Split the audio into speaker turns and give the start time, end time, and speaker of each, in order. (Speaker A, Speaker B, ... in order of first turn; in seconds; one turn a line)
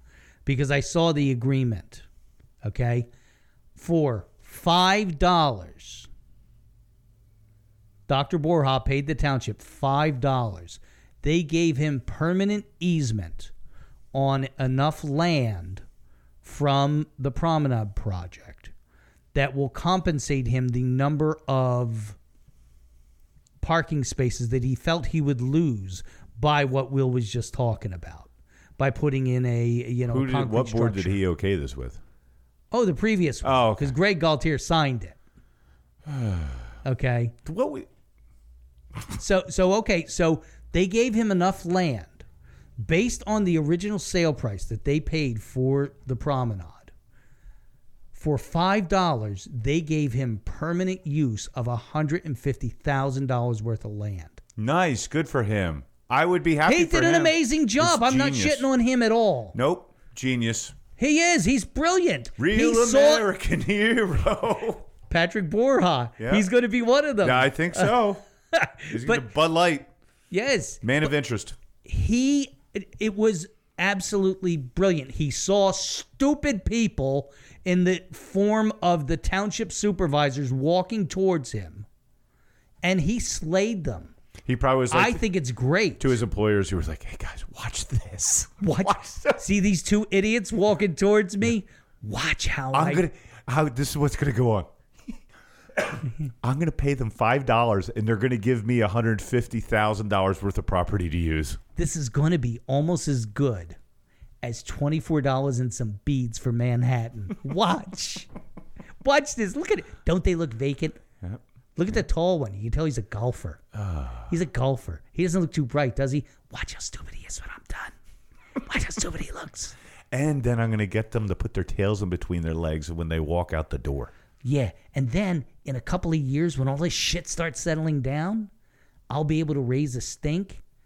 Speaker A: 0.5-2.0
Speaker A: 2.6-3.1
Speaker A: 3.8-6.1
Speaker A: 8.1-13.5
Speaker A: 14.1-15.8
Speaker A: 16.4-18.7
Speaker A: 19.3-22.2
Speaker A: 23.6-31.2
Speaker B: 30.1-32.0
Speaker A: 32.7-35.1
Speaker B: 33.4-33.9
Speaker B: 36.0-36.7
Speaker A: 36.8-37.3
Speaker B: 37.4-37.9
Speaker A: 39.2-42.2
Speaker A: 42.8-46.9
Speaker A: 48.1-54.4
Speaker B: 54.6-58.6
Speaker A: 56.6-59.5
Speaker B: 59.5-60.8
Speaker A: 61.0-63.3
Speaker B: 62.4-64.8
Speaker A: 65.1-68.0
Speaker B: 66.2-66.5
Speaker B: 67.2-68.2
Speaker A: 68.5-69.3
Speaker B: 68.9-69.9
Speaker A: 70.3-70.8
Speaker B: 70.8-71.5
Speaker A: 71.8-81.8
Speaker A: 82.8-84.1
Speaker B: 84.5-85.2
Speaker A: 84.9-86.1
Speaker B: 86.0-89.4
Speaker A: 88.6-93.0
Speaker B: 92.7-94.7
Speaker B: 95.9-101.6
Speaker A: 101.8-103.8
Speaker A: 104.4-108.3
Speaker A: 109.0-111.0
Speaker A: 111.8-113.6
Speaker B: 113.7-114.3
Speaker A: 114.3-117.9
Speaker A: 118.6-119.7
Speaker B: 120.1-124.1
Speaker A: 124.4-128.5
Speaker A: 129.1-130.6